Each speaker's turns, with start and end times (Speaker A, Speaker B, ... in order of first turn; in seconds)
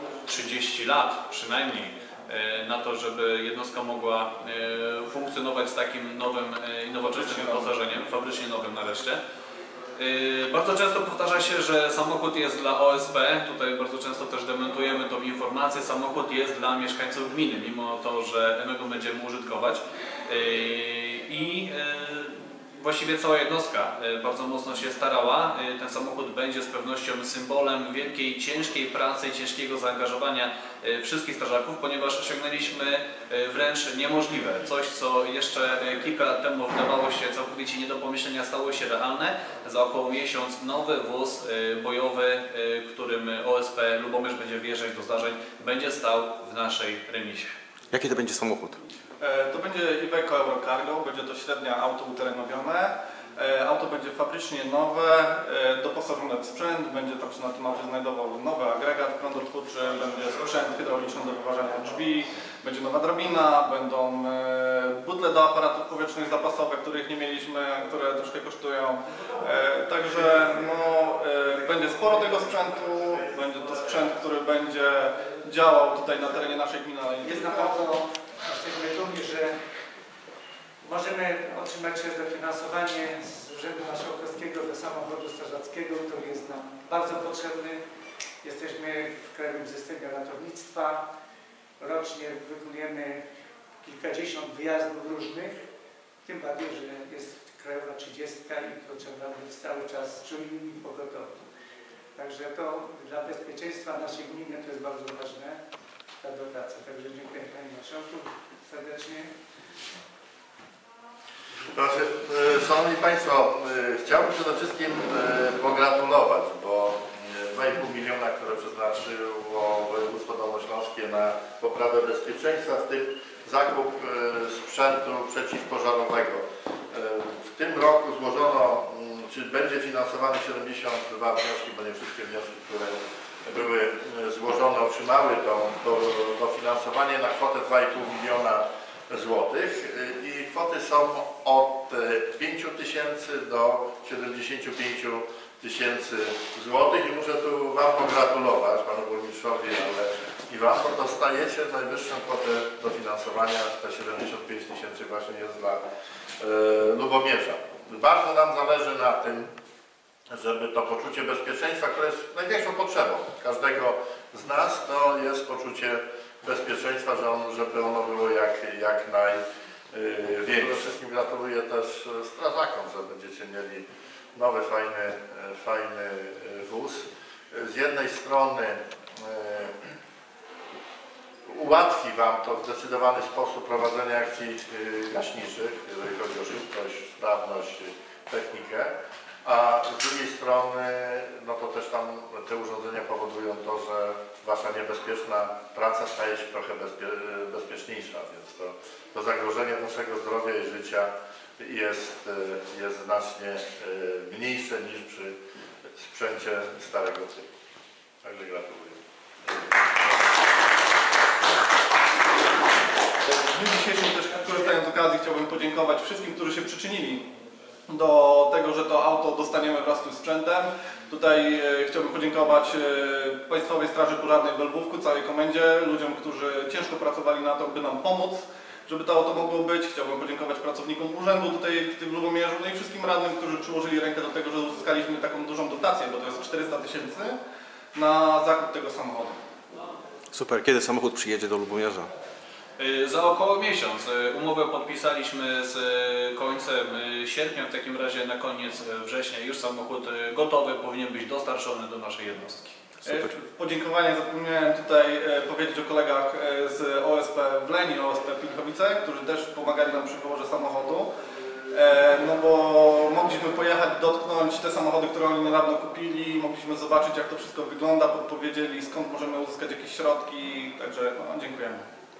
Speaker A: 0.2-9.2, 10.0-47.5, 242.8-252.8
Speaker B: 7.0-7.7, 49.2-77.7, 213.3-217.2, 217.9-237.3, 237.9-239.4, 253.0-261.1, 261.7-271.8
Speaker C: 47.9-48.8, 240.3-242.1
Speaker D: 77.2-79.5, 80.8-87.8, 88.4-91.0, 91.8-93.2, 93.8-95.6, 96.2-101.4, 102.2-105.6, 106.2-109.3
Speaker E: 111.7-155.8, 156.4-159.5, 160.3-169.4, 169.9-179.9, 181.4-188.9, 189.4-205.3, 206.0-207.5, 208.2-209.7